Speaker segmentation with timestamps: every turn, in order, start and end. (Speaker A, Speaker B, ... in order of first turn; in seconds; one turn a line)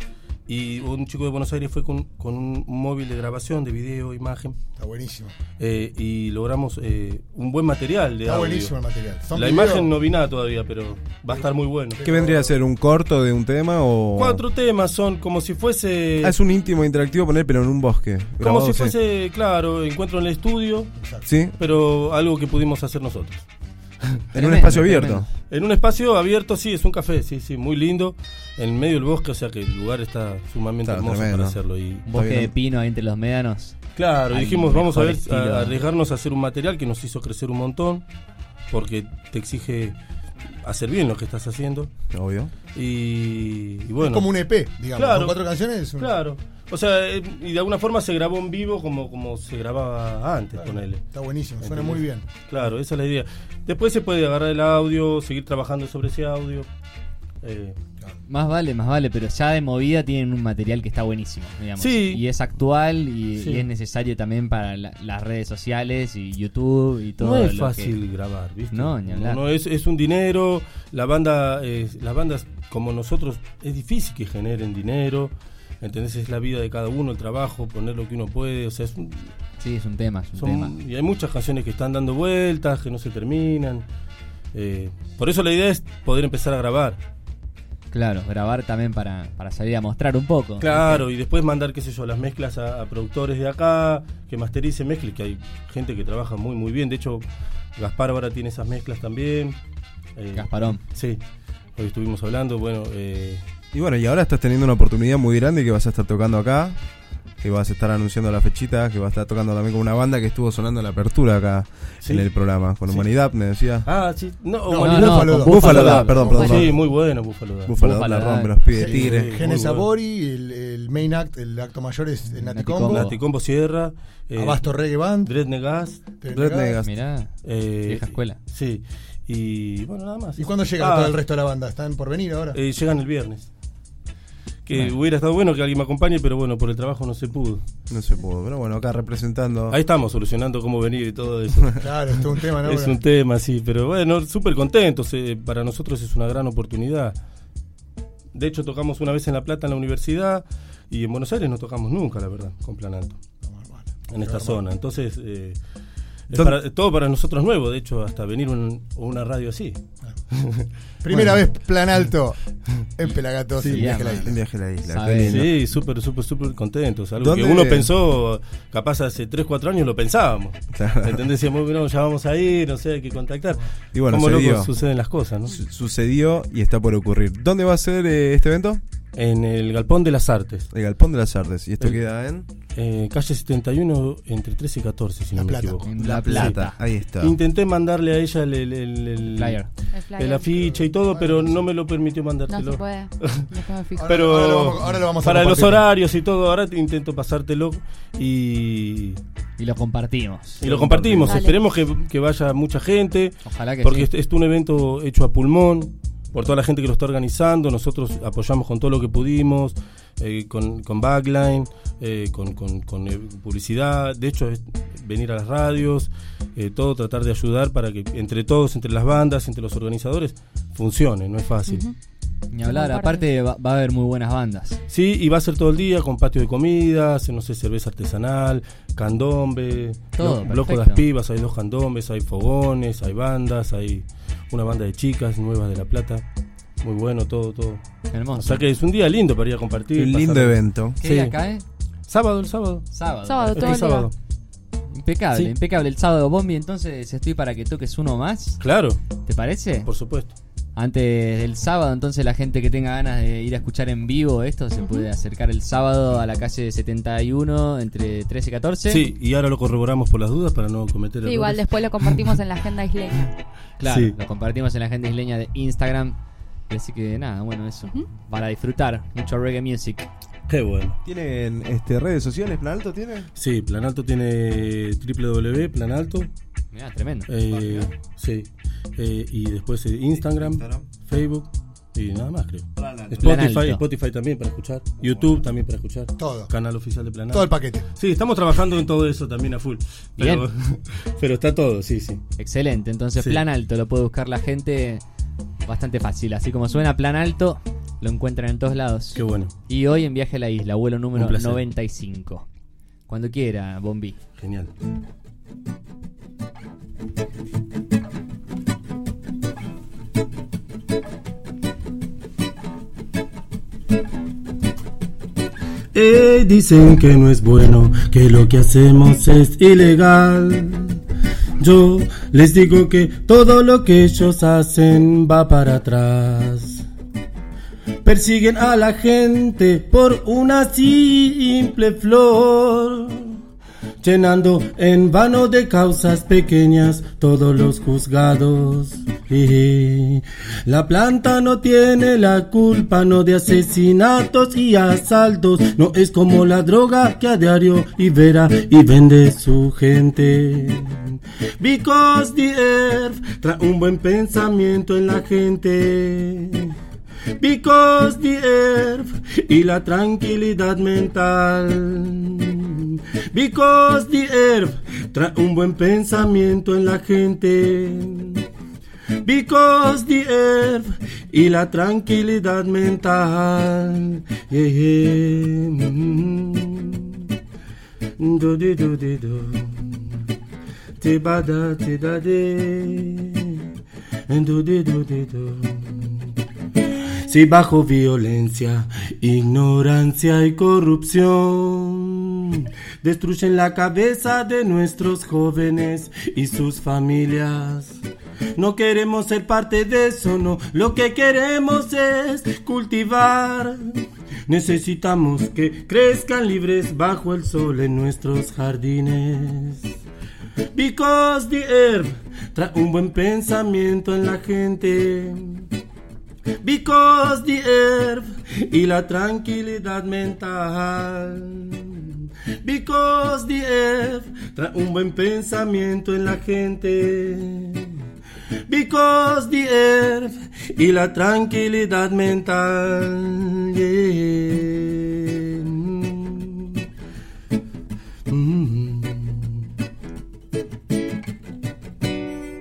Speaker A: 0.5-4.6
Speaker B: 4.8-5.3
Speaker A: 5.6-8.8
Speaker B: 8.2-9.9
Speaker A: 9.3-12.0
Speaker B: 11.9-12.5
Speaker C: 12.0-14.4
Speaker A: 14.2-16.4
Speaker C: 16.2-18.9
Speaker A: 18.4-20.9
Speaker B: 21.0-21.3
Speaker C: 21.2-21.6
Speaker A: 21.6-23.4
Speaker C: 24.3-25.3
Speaker D: 24.3-25.3
Speaker A: 25.5-32.0
Speaker C: 30.8-32.5
Speaker D: 32.0-33.8
Speaker A: 34.0-38.0
Speaker D: 34.3-35.8
Speaker A: 38.7-40.0
Speaker A: 40.6-41.9
Speaker C: 42.1-42.5
Speaker A: 42.7-44.3
Speaker B: 44.0-46.1
Speaker A: 44.9-45.4
Speaker A: 46.0-51.0
Speaker B: 50.5-52.2
Speaker A: 51.6-56.7
Speaker A: 57.4-57.8
Speaker D: 58.3-67.9
Speaker A: 61.8-62.2
Speaker A: 63.4-63.6
Speaker A: 67.2-79.3
Speaker D: 68.7-69.4
Speaker D: 79.6-80.7
Speaker A: 80.4-83.8
Speaker A: 84.5-87.0
Speaker D: 87.9-91.0
Speaker A: 90.6-97.2
Speaker A: 97.8-99.6
Speaker A: 100.2-101.2
Speaker D: 100.3-100.8
Speaker A: 101.8-103.4
Speaker C: 103.7-106.8
Speaker C: 107.4-113.9
Speaker A: 112.0-112.3
Speaker A: 113.8-117.8
Speaker B: 114.7-116.7
Speaker D: 114.8-116.4
Speaker C: 115.4-116.8
Speaker C: 117.6-119.4
Speaker D: 117.8-118.6
Speaker A: 118.7-119.9
Speaker B: 118.7-123.1
Speaker D: 122.3-123.1
Speaker A: 122.8-126.0
Speaker B: 124.3-125.3
Speaker B: 126.2-126.8
Speaker C: 126.3-126.9
Speaker D: 126.8-128.4
Speaker A: 127.4-131.2
Speaker B: 130.4-132.6
Speaker A: 132.5-133.5
Speaker A: 134.7-137.6
Speaker C: 137.9-139.8
Speaker A: 139.7-147.2
Speaker B: 141.8-143.0
Speaker A: 148.3-153.2
Speaker B: 153.5-154.6
Speaker A: 154.1-155.6
Speaker A: 156.3-159.8
Speaker C: 156.3-156.6
Speaker A: 160.3-160.7
Speaker B: 161.0-164.4
Speaker C: 161.1-161.4
Speaker A: 163.6-163.9
Speaker D: 163.6-165.5
Speaker C: 164.1-165.6
Speaker A: 165.2-175.6
Speaker C: 167.2-167.9
Speaker C: 170.7-171.3
Speaker C: 173.9-174.7
Speaker C: 175.5-178.8
Speaker A: 179.2-180.7
Speaker C: 180.7-182.4
Speaker A: 182.7-186.6
Speaker B: 185.3-185.9
Speaker D: 185.8-186.8
Speaker C: 186.0-187.3
Speaker A: 187.2-189.6
Speaker D: 189.3-189.7
Speaker E: 189.9-190.5
Speaker A: 190.2-193.5
Speaker B: 190.6-191.6
Speaker E: 192.5-194.1
Speaker B: 193.9-195.8
Speaker A: 194.1-199.2
Speaker D: 199.6-201.1
Speaker A: 200.6-221.8
Speaker C: 200.6-201.3
Speaker E: 201.2-201.6
Speaker D: 203.4-204.1
Speaker E: 221.7-221.9
Speaker D: 222.5-224.8
Speaker E: 222.6-223.2
Speaker A: 224.9-236.2
Speaker D: 230.2-231.0
Speaker A: 236.8-237.8
Speaker D: 238.1-238.6
Speaker A: 238.3-241.4
Speaker C: 239.9-241.0
Speaker D: 241.0-241.6
Speaker A: 242.1-242.9
Speaker D: 242.9-243.8
Speaker E: 243.2-244.1
Speaker A: 243.5-244.1
Speaker D: 244.9-248.6
Speaker A: 248.6-249.0
Speaker D: 249.2-249.9
Speaker A: 249.8-250.3
Speaker D: 250.8-259.1
Speaker E: 254.8-255.1
Speaker A: 258.9-262.4
Speaker E: 261.2-263.3
Speaker D: 263.8-266.2
Speaker A: 263.8-264.1
Speaker D: 266.7-270.1
Speaker A: 270.5-271.0
Speaker C: 271.0-273.3
Speaker A: 273.4-276.3
Speaker D: 276.7-277.3
Speaker A: 277.3-292.2
Speaker C: 277.5-277.9
Speaker C: 280.4-280.9
Speaker C: 282.8-283.4
Speaker D: 283.2-283.8
Speaker B: 286.2-286.5
Speaker B: 287.3-287.8
Speaker D: 290.2-290.5
Speaker D: 292.4-295.0
Speaker D: 295.6-302.4
Speaker A: 299.1-299.5
Speaker A: 301.1-301.6
Speaker D: 303.1-304.2
Speaker A: 304.4-304.7
Speaker A: 315.9-321.0
Speaker A: 321.6-326.9
Speaker A: 328.0-333.4
Speaker A: 334.0-356.7
Speaker A: 357.4-368.4
Speaker A: 369.2-377.3
Speaker A: 378.2-380.3
Speaker A: 381.0-383.7
Speaker A: 384.3-386.3
Speaker A: 387.2-398.0
Speaker A: 398.5-409.9
Speaker A: 410.7-415.7
Speaker A: 416.6-428.0
Speaker A: 428.7-436.8
Speaker A: 438.3-439.7